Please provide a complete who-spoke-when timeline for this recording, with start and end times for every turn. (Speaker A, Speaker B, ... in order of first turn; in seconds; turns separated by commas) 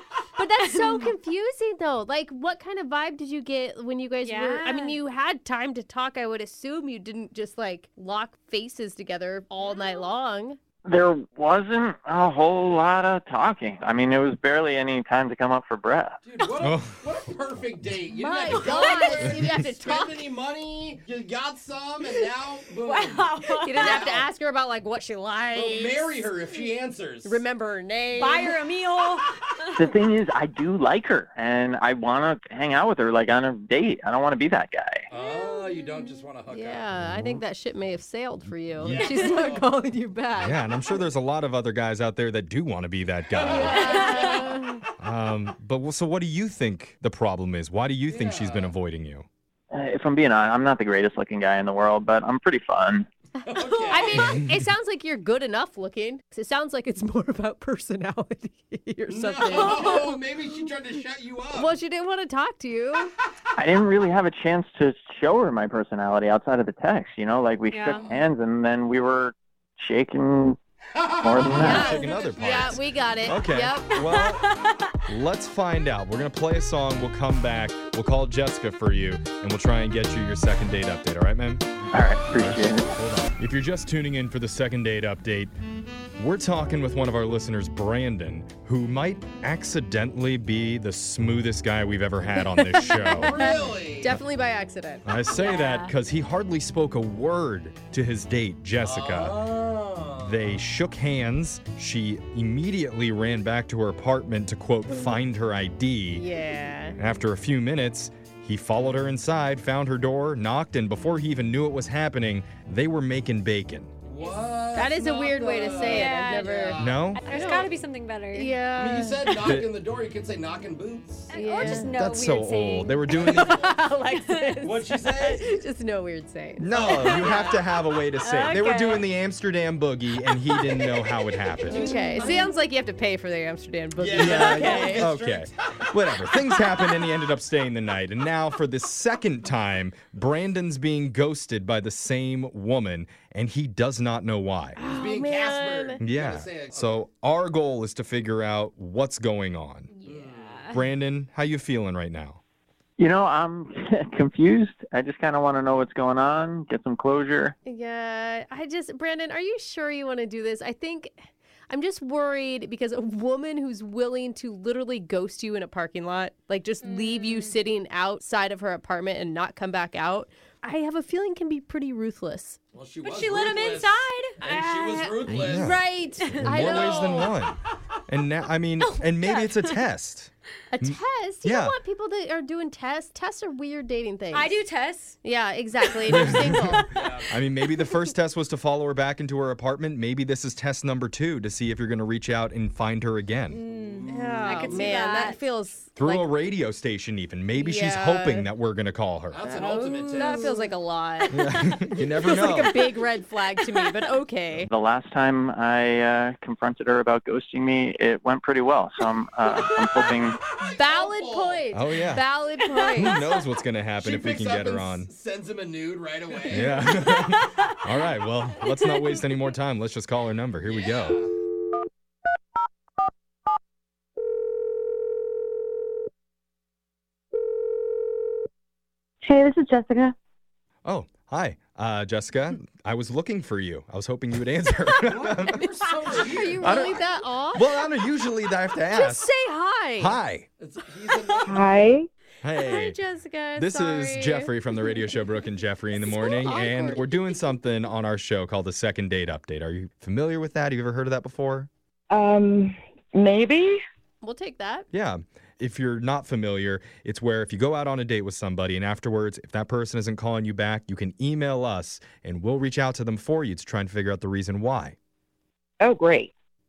Speaker A: 0.4-10.6, Speaker B: 0.6-1.1, Speaker B: 4.2-5.0, Speaker B: 9.6-10.1, Speaker C: 10.8-16.2, Speaker D: 16.2-24.3, Speaker E: 16.6-17.0, Speaker A: 18.1-20.3, Speaker B: 18.5-19.1, Speaker B: 22.8-24.1, Speaker A: 23.6-26.3, Speaker D: 25.5-27.4, Speaker A: 27.2-28.6, Speaker B: 28.1-29.9, Speaker C: 29.8-35.1, Speaker D: 35.1-36.9, Speaker A: 36.5-41.0, Speaker E: 37.0-37.4, Speaker E: 38.8-39.1, Speaker D: 38.8-39.7, Speaker E: 40.3-44.0, Speaker D: 43.3-44.9, Speaker A: 43.4-44.8, Speaker B: 43.7-44.5, Speaker E: 45.0-49.3, Speaker D: 48.1-48.7, Speaker C: 49.7-53.1, Speaker D: 53.5-54.4, Speaker B: 53.5-54.0, Speaker A: 53.9-60.0, Speaker D: 59.1-61.7, Speaker B: 59.5-60.1, Speaker A: 61.5-63.1, Speaker C: 63.6-70.6, Speaker B: 67.7-68.1, Speaker D: 67.9-68.2, Speaker D: 71.0-71.8, Speaker C: 71.2-71.9, Speaker E: 71.4-74.5, Speaker A: 71.5-74.0, Speaker B: 74.1-74.7, Speaker E: 75.1-81.7, Speaker C: 81.9-82.9, Speaker E: 82.3-85.5, Speaker E: 86.2-93.5, Speaker A: 92.4-95.0, Speaker D: 93.1-94.2, Speaker E: 95.0-99.6, Speaker B: 95.3-95.9, Speaker D: 98.8-100.4, Speaker E: 100.2-106.3, Speaker A: 106.1-107.0, Speaker E: 107.0-113.9, Speaker D: 114.0-117.7, Speaker A: 114.7-117.7, Speaker B: 115.8-116.6, Speaker E: 116.8-117.2, Speaker B: 117.2-118.5, Speaker A: 118.3-119.6, Speaker D: 118.7-121.3, Speaker E: 119.3-119.7, Speaker B: 121.3-123.6, Speaker A: 121.3-121.9, Speaker E: 121.6-123.6, Speaker D: 123.1-123.9, Speaker A: 123.2-127.6, Speaker B: 124.1-124.5, Speaker D: 124.6-125.5, Speaker E: 126.6-131.9, Speaker B: 126.9-127.5, Speaker B: 128.2-129.1, Speaker D: 131.6-132.4, Speaker B: 131.7-132.5, Speaker A: 131.7-135.1, Speaker D: 133.9-136.4, Speaker E: 134.1-144.8, Speaker A: 144.8-146.0, Speaker D: 144.8-147.0, Speaker E: 146.0-149.9, Speaker B: 149.9-150.8, Speaker D: 150.0-150.7, Speaker E: 150.7-152.4, Speaker C: 153.0-157.5, Speaker A: 157.7-172.6, Speaker B: 166.8-167.5, Speaker D: 172.7-175.7, Speaker B: 173.0-175.2, Speaker E: 175.3-175.8, Speaker A: 175.4-177.3, Speaker B: 176.2-176.8, Speaker E: 176.4-177.6, Speaker D: 176.6-177.3, Speaker E: 178.1-181.8, Speaker B: 178.8-179.8, Speaker A: 180.7-184.6, Speaker B: 184.3-185.2, Speaker A: 185.2-187.0, Speaker E: 186.1-193.6, Speaker D: 186.9-187.3, Speaker B: 193.5-195.4, Speaker D: 193.6-195.0, Speaker A: 194.1-196.3, Speaker E: 196.0-199.4, Speaker A: 197.5-198.5, Speaker D: 199.3-200.7, Speaker A: 199.4-201.4, Speaker B: 199.8-200.6, Speaker B: 201.3-201.8, Speaker E: 201.3-202.9, Speaker A: 202.2-204.7, Speaker C: 204.7-210.4, Speaker D: 209.6-211.7, Speaker A: 210.7-213.2, Speaker E: 211.7-212.3, Speaker E: 213.0-215.1, Speaker D: 214.0-216.8, Speaker E: 216.5-221.2, Speaker B: 217.1-217.7, Speaker D: 220.6-221.3, Speaker F: 229.2-230.1, Speaker E: 230.8-235.6, Speaker D: 235.0-237.0, Speaker A: 236.1-237.8, Speaker E: 236.6-237.0, Speaker E: 237.5-239.3, Speaker A: 238.9-240.2, Speaker E: 240.0-240.5, Speaker D: 240.6-241.7, Speaker F: 241.4-242.1, Speaker E: 242.4-243.0, Speaker A: 242.6-244.5, Speaker E: 243.6-251.7, Speaker A: 245.9-247.0, Speaker F: 252.1-253.8, Speaker A: 254.2-254.9, Speaker E: 254.9-264.9, Speaker F: 265.8-266.3